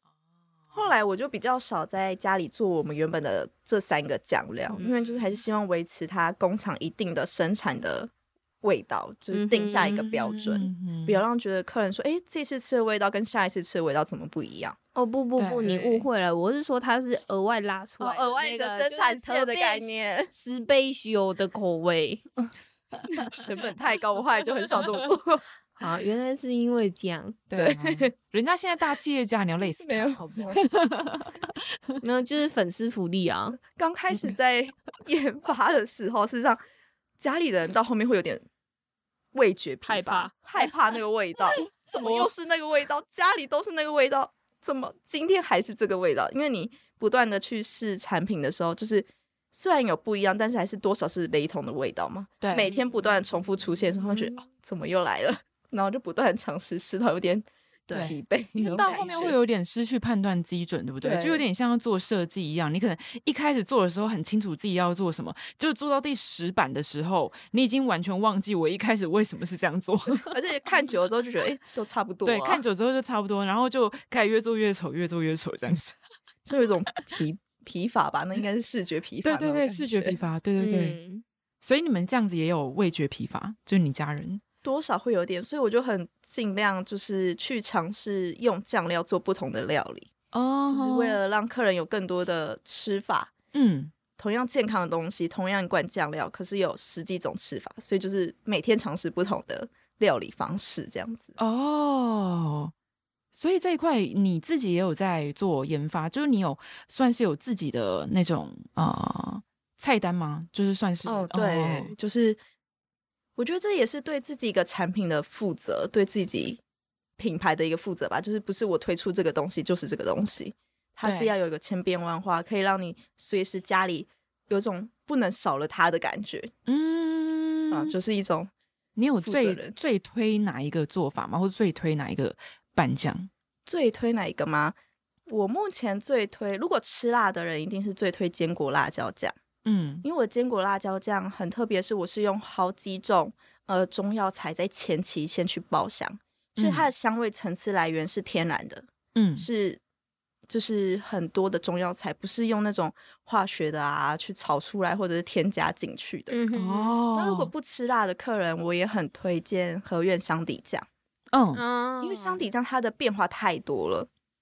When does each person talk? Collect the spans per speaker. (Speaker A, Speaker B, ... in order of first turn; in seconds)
Speaker A: 0.7-8.1, 8.6-14.8, 18.0-20.3, 23.2-25.4, 27.5-28.1, 29.8-30.6, 33.6-36.6, 37.2-38.4, 39.3-59.4, 61.0-61.4, 70.3-72.6, 76.5-80.2, 84.6-90.1, 90.7-93.3, 94.2-101.3, 111.0-112.4, 113.4-116.6, 117.2-126.5, 127.7-128.5, 129.2-129.7, 133.7-134.7, 135.3-139.4, 140.0-149.8, 150.5-156.4, 157.1-160.9, 162.0-164.1
Speaker B: 4.7-5.3, 9.3-9.9, 14.9-22.3, 25.8-27.4, 32.0-33.6, 39.8-40.7, 41.6-42.3, 52.6-53.1, 80.6-81.2, 156.3-157.0, 161.5-162.4
Speaker C: 9.8-11.2, 15.3-16.1, 27.5-31.5, 52.4-52.7, 57.9-70.3, 72.2-76.0, 79.2-81.0, 81.6-84.4, 90.3-91.2, 93.5-93.9, 101.4-102.7, 103.3-111.9, 121.0-121.3, 126.7-127.9, 128.9-133.3, 139.6-140.1, 146.6-146.9, 149.1-149.5, 156.5-157.5, 161.3-161.6